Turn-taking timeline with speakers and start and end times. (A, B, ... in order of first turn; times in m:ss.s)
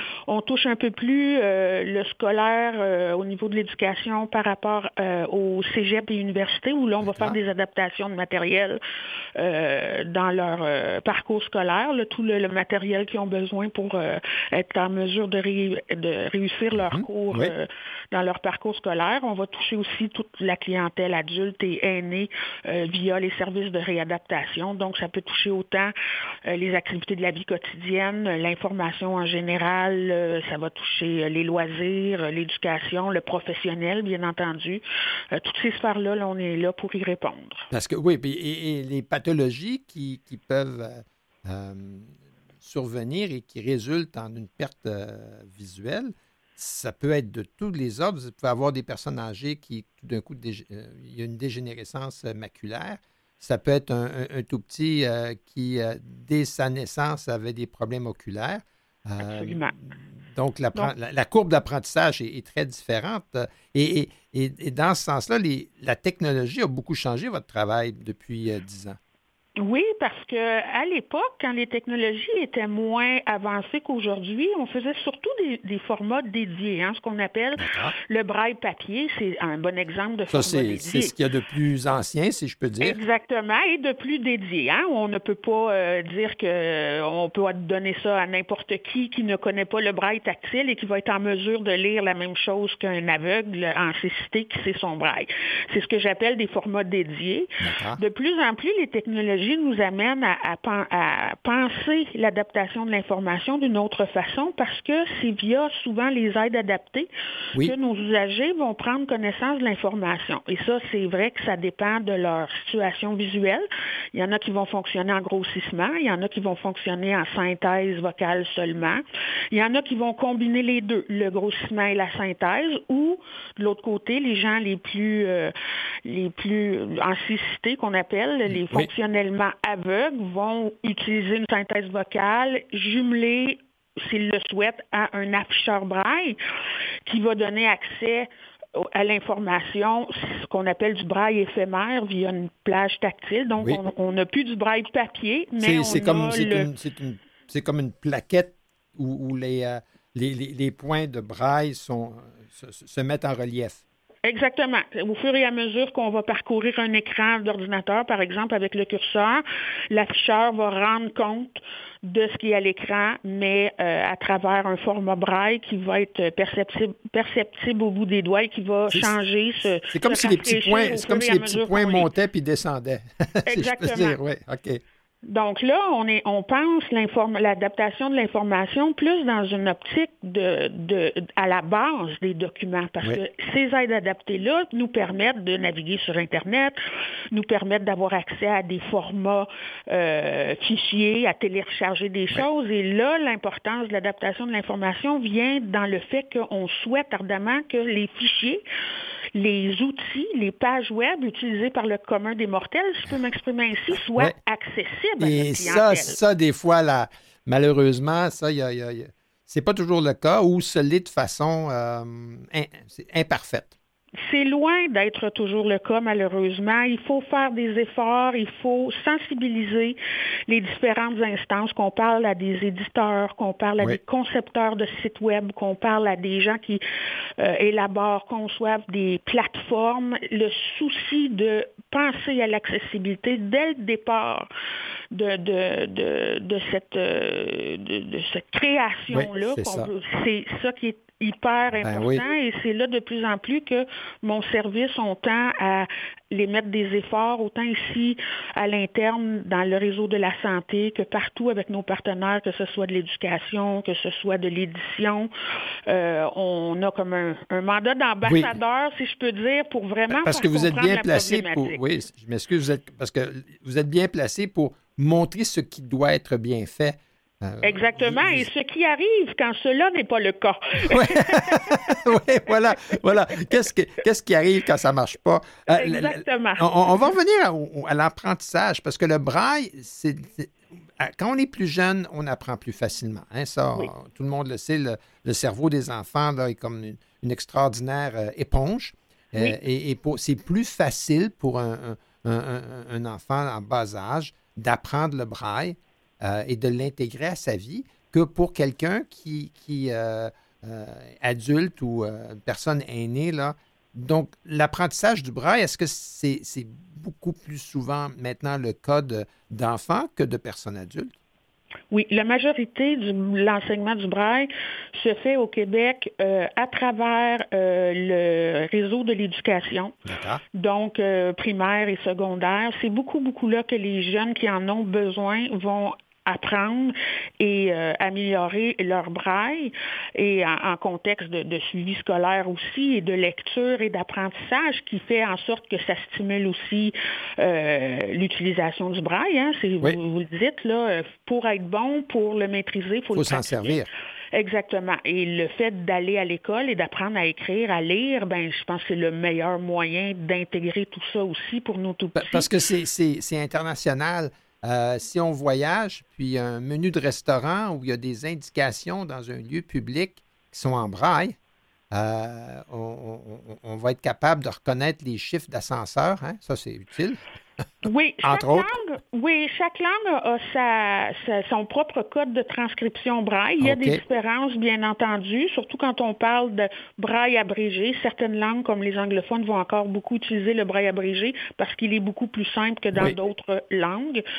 0:00.3-0:08.8 A
0:07.0-0:07.4 B
0:09.4-0:25.9 A
0:16.8-0:17.5 B
0:26.5-0:37.7 A
0:37.7-1:09.0 B
0:59.2-0:59.7 A
1:09.6-1:21.1 A
1:17.6-1:18.0 B
1:20.3-1:23.0 B
1:22.8-2:05.5 A
1:37.6-1:38.0 B
2:06.0-2:16.4 A
2:08.5-2:08.9 B
2:17.1-2:26.7 A
2:25.6-2:33.8 B
2:34.2-2:52.1 A
2:48.9-2:49.2 B
2:49.9-2:54.8 B
2:53.5-2:54.2 A
2:55.3-3:06.8 A
3:07.3-3:18.6 A
3:19.4-3:26.2 A
3:25.2-3:33.8 B
3:34.2-3:40.0 A
3:40.5-3:46.8 A
3:47.4-3:54.5 A
3:55.1-4:15.3 A
3:59.1-3:59.9 B
4:01.8-4:02.2 B
4:15.9-4:21.8 A
4:18.2-4:18.5 B
4:20.1-4:28.5 B
4:27.6-4:32.0 A
4:30.8-5:11.1 B
4:35.7-4:37.1 A
5:11.9-5:20.0 A
5:20.1-5:20.4 B
5:20.6-5:52.5 A
5:43.1-5:43.9 B
5:52.2-6:01.4 B
6:01.9-6:07.2 B
6:07.8-6:24.2 A
6:08.2-6:08.7 B
6:13.6-6:14.0 B